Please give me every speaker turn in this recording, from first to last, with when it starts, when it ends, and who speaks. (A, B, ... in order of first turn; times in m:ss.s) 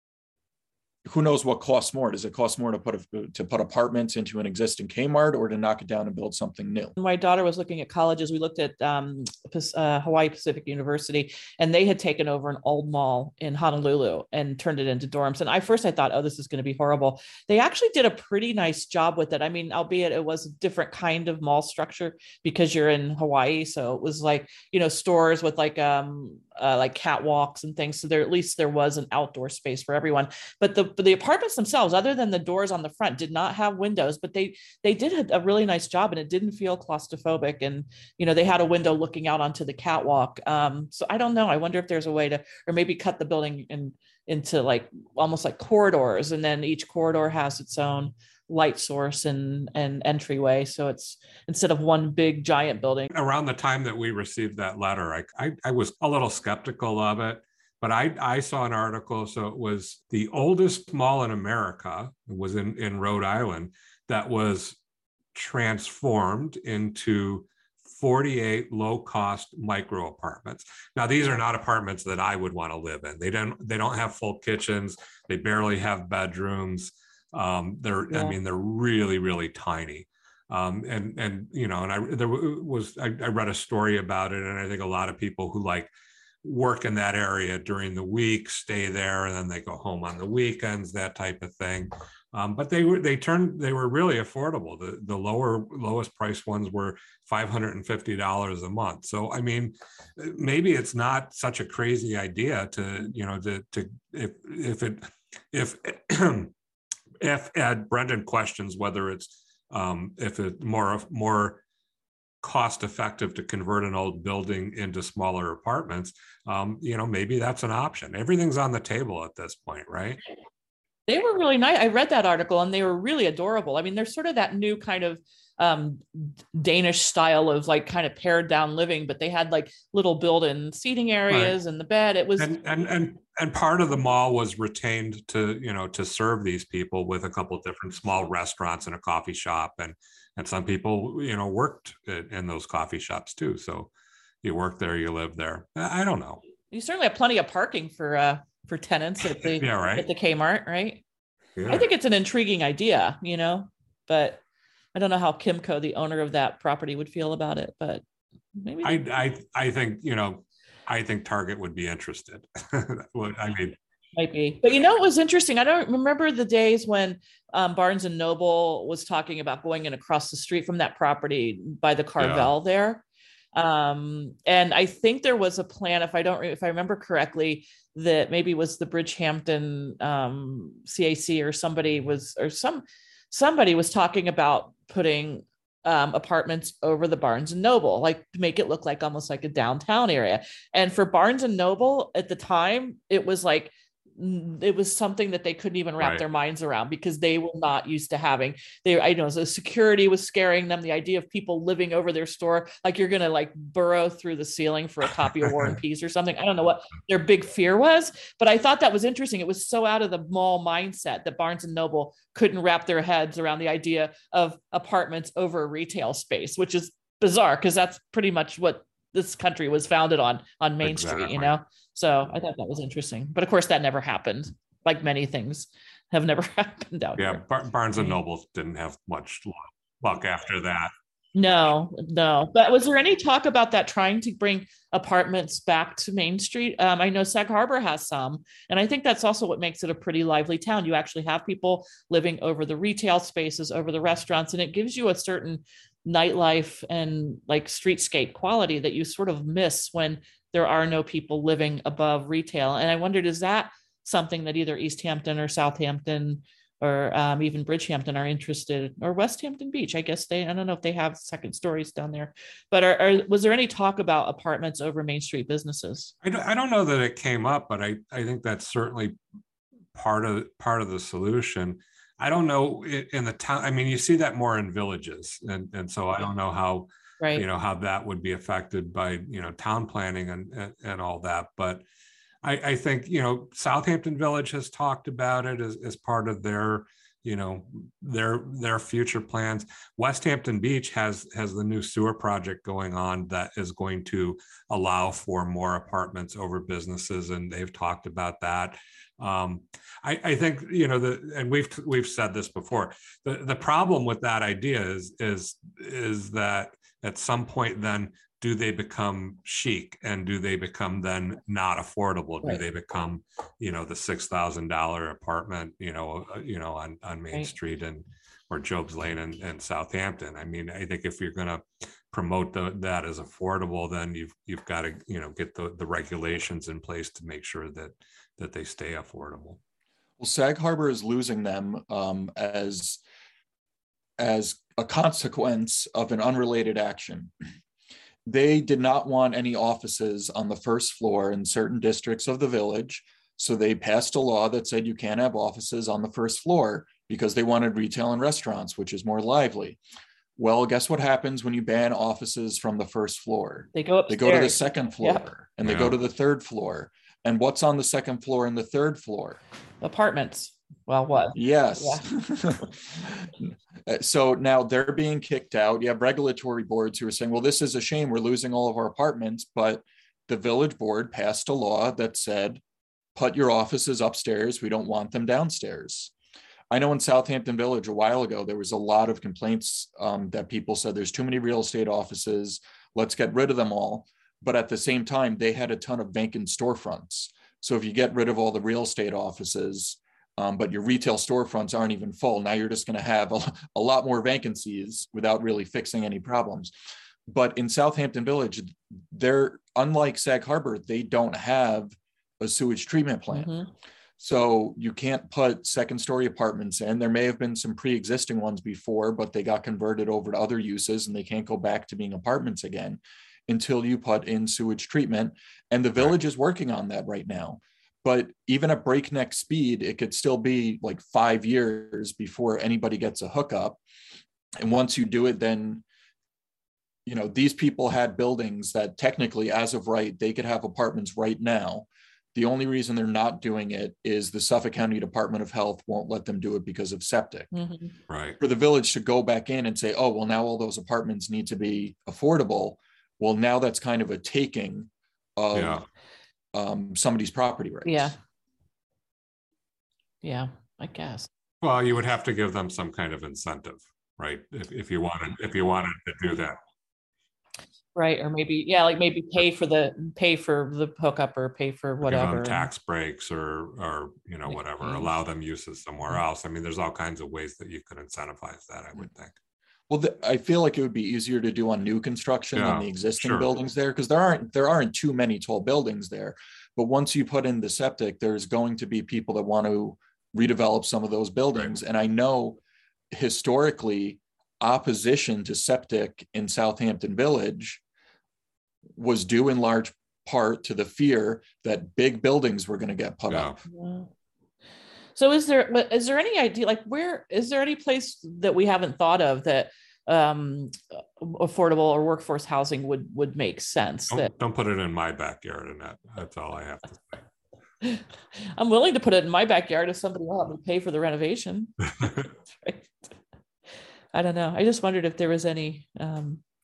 0:01.0-0:07.0 A
0:07.0-0:53.1 B
0:53.1-1:04.8 C
1:05.3-1:25.9 C
1:18.1-1:18.4 B
1:26.4-1:46.5 C
1:47.2-1:51.6 C
1:52.4-2:00.2 C
2:01.1-2:12.5 B
2:11.3-2:11.6 C
2:12.4-2:23.9 C
2:24.4-2:26.4 C
2:26.7-2:31.0 B
2:29.5-2:30.1 C
2:31.6-2:31.9 C
2:31.7-2:34.4 B
2:35.0-2:38.0 B
2:38.6-2:39.0 B
2:38.8-2:43.8 C
2:44.1-3:47.4 B
2:52.2-2:52.5 C
3:40.8-3:41.5 C
3:47.2-3:50.9 C
3:51.3-4:26.1 B
4:26.2-4:29.2 C
4:30.0-4:41.8 C
4:42.4-5:29.6 C
5:30.2-5:33.0 A
5:34.2-5:37.3 A
5:38.3-5:49.8 A
5:50.4-5:59.4 A
5:53.7-5:55.2 B
5:55.6-5:56.0 C
5:59.8-6:02.0 B
6:01.3-6:12.6 A
6:13.1-6:16.1 A
6:16.7-6:36.7 A
6:37.3-6:43.5 A
6:43.3-6:43.7 B
6:44.2-7:03.8 A
7:04.6-7:05.8 A
7:07.0-7:17.5 A
7:17.5-7:17.9 B
7:18.1-7:18.4 C
7:18.4-7:25.8 A
7:25.5-7:25.8 C
7:26.5-7:28.1 A
7:27.8-7:28.2 B
7:30.2-7:31.3 B
7:31.6-7:36.6 C
7:38.0-7:42.7 B
7:42.0-7:49.3 C
7:44.5-7:45.1 B
7:49.9-8:07.8 A
7:52.6-7:53.5 C
8:08.9-8:13.5 A
8:13.3-8:13.6 C
8:13.7-8:14.1 B
8:15.2-8:24.3 B
8:24.1-8:27.2 C
8:28.6-8:32.9 B
8:34.1-8:36.4 B